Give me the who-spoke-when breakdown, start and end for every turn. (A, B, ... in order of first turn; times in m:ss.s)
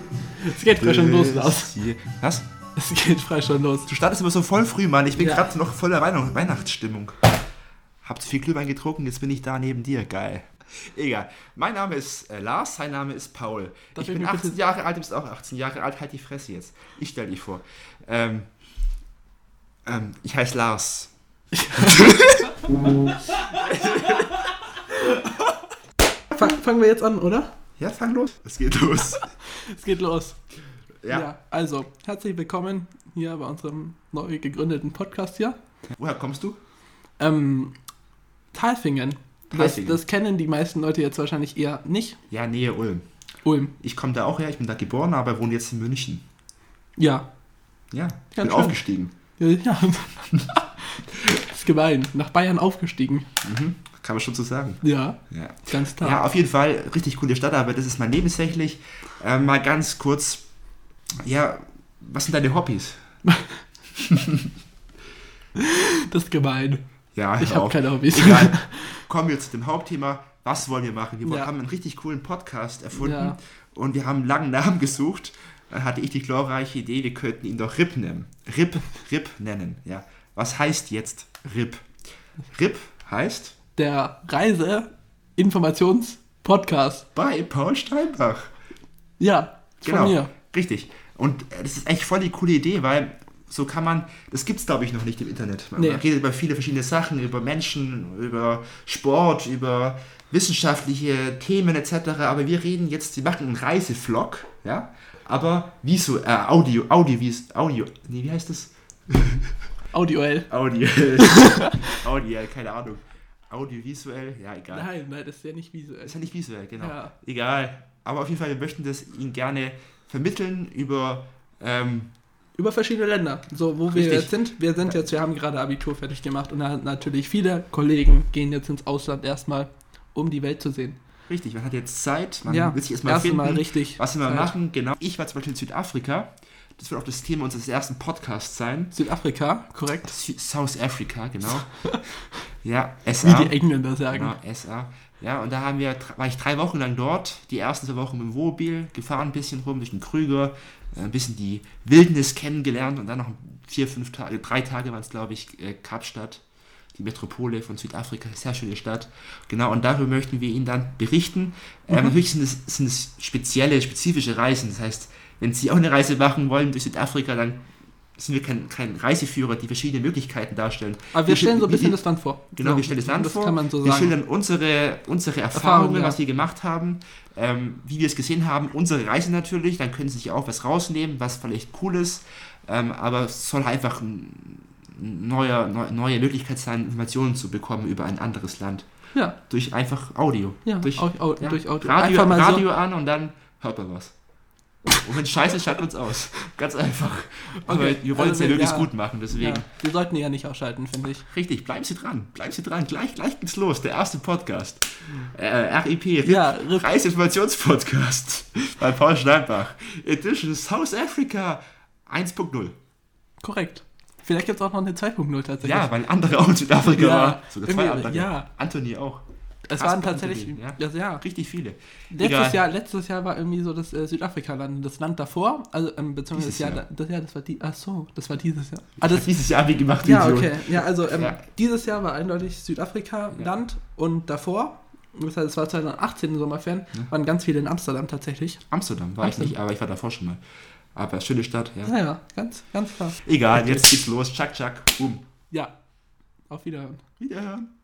0:00.4-0:01.7 A
0:00.7-0:02.4 B
0:02.8-0:03.9 A
0:03.9-0:07.2 B
0:05.2-0:05.4 A
0:08.0-0:18.5 B
0:14.0-0:14.6 A
0:19.8-0:21.1 B
0:21.6-0:22.5 A
0:21.7-0:22.4 B
0:23.3-0:25.5 A
0:26.3-0:27.5 A
0:27.8-0:29.2 B
0:29.1-0:30.4 A
0:31.0-0:31.3 B
0:31.1-0:35.6 A
0:35.9-0:36.6 B
0:37.2-0:37.7 A
0:38.5-0:42.2 A
0:39.5-0:40.0 B
0:42.3-0:43.0 B
0:43.4-0:43.7 A
0:43.8-0:46.2 B
0:47.0-0:47.3 A
0:47.9-0:49.1 B
0:48.3-0:48.8 A
0:49.4-0:53.3 A
0:53.4-1:00.4 B
0:54.8-0:56.2 A
1:01.2-1:03.0 B
1:03.2-1:03.6 A
1:04.0-1:04.5 B
1:05.6-1:06.8 A
1:07.1-1:21.9 B
1:07.4-1:09.0 A
1:11.2-1:11.5 A
1:12.9-1:13.4 A
1:22.5-1:23.5 B
1:23.8-1:27.0 A
1:27.1-1:28.5 B
1:29.2-1:30.3 A
1:29.8-1:49.5 B
1:35.8-1:36.0 A
1:49.9-1:50.5 A
1:50.5-1:54.9 B
1:51.2-1:52.0 A
1:54.7-1:56.2 A
1:56.0-2:02.1 B
1:56.8-1:57.1 A
2:02.6-2:11.0 A
2:03.9-2:04.3 B
2:11.3-2:18.9 B
2:12.4-2:14.5 A
2:18.9-2:20.1 A
2:20.1-2:21.9 B
2:22.6-2:23.6 B
2:23.2-2:24.3 A
2:24.1-2:36.4 B
2:36.9-2:47.6 B
2:48.2-2:52.0 B
2:51.1-2:54.1 A
2:52.6-3:08.8 B
2:55.5-2:56.2 A
3:09.5-3:14.1 B
3:10.6-3:12.7 A
3:14.9-3:19.6 B
3:17.6-3:21.2 A
3:21.3-3:32.7 B
3:26.2-3:26.9 A
3:33.4-3:35.9 A
3:35.6-3:39.2 B
3:36.8-3:38.5 A
3:39.6-3:41.2 A
3:39.8-3:42.6 B
3:42.1-3:49.4 A
3:46.3-3:46.8 B
3:49.0-3:51.4 B
3:50.0-3:58.6 A
3:58.7-4:00.4 B
3:59.2-3:59.5 A
4:00.9-4:01.9 B
4:01.8-4:03.8 A
4:03.2-4:05.2 B
4:06.5-4:07.0 A
4:07.2-4:07.7 B